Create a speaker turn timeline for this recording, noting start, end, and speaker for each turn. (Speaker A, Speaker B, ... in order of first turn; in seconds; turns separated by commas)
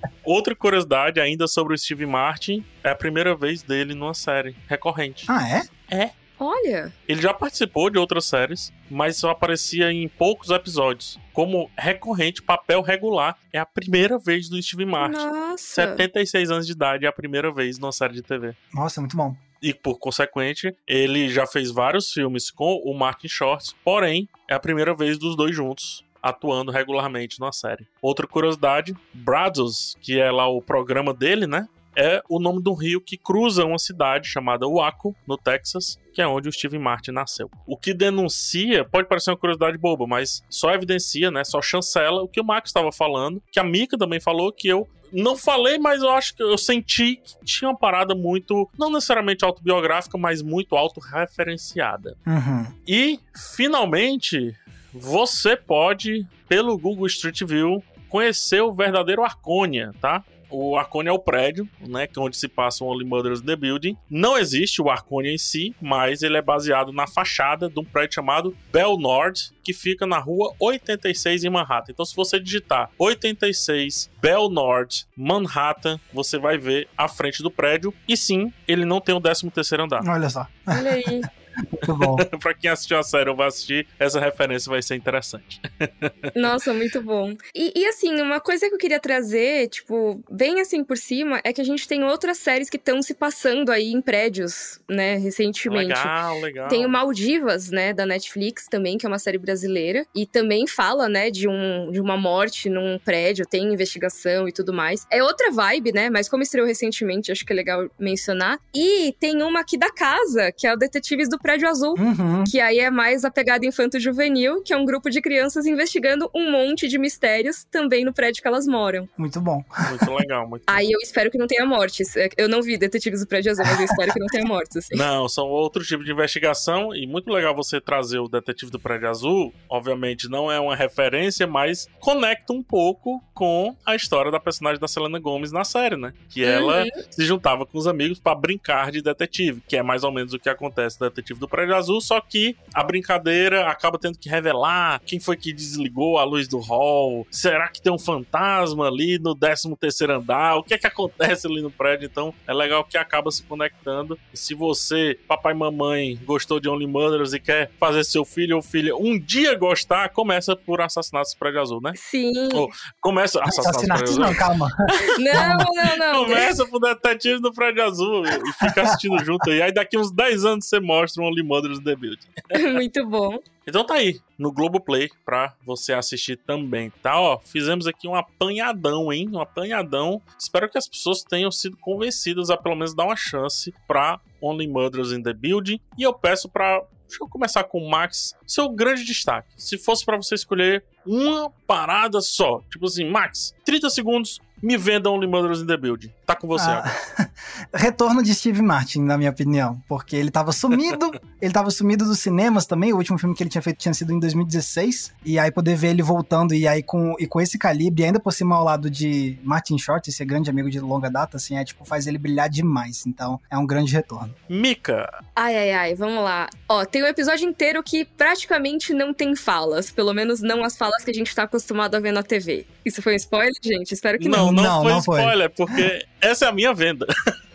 Speaker A: 0.2-5.3, Speaker B: 5.3-5.7, Speaker C: 6.4-6.9, Speaker A: 7.1-18.6, Speaker C: 15.0-16.0, Speaker B: 18.7-19.4, Speaker A: 19.6-52.2, Speaker B: 52.3-52.7, Speaker A: 52.9-80.1, Speaker B: 80.0-81.0, Speaker C: 80.7-81.3, Speaker B: 81.6-82.2, Speaker A: 81.9-86.5, Speaker C: 86.3-96.1, Speaker A: 95.7-96.9, Speaker C: 96.7-119.1, Speaker B: 112.0-112.5, Speaker B: 119.2-120.1, Speaker A: 119.8-120.8, Speaker C: 120.7-125.0, Speaker A: 124.9-162.0, Speaker C: 136.4-137.0, Speaker C: 162.0-162.7, Speaker A: 162.5-164.4, Speaker B: 163.4-165.7, Speaker C: 165.1-166.6, Speaker A: 166.0-172.8, Speaker B: 168.6-169.2, Speaker C: 172.5-173.4, Speaker A: 173.7-196.9, Speaker B: 196.6-214.3, Speaker A: 214.5-215.1, Speaker C: 215.3-224.6, Speaker A: 224.2-227.1, Speaker B: 224.3-225.9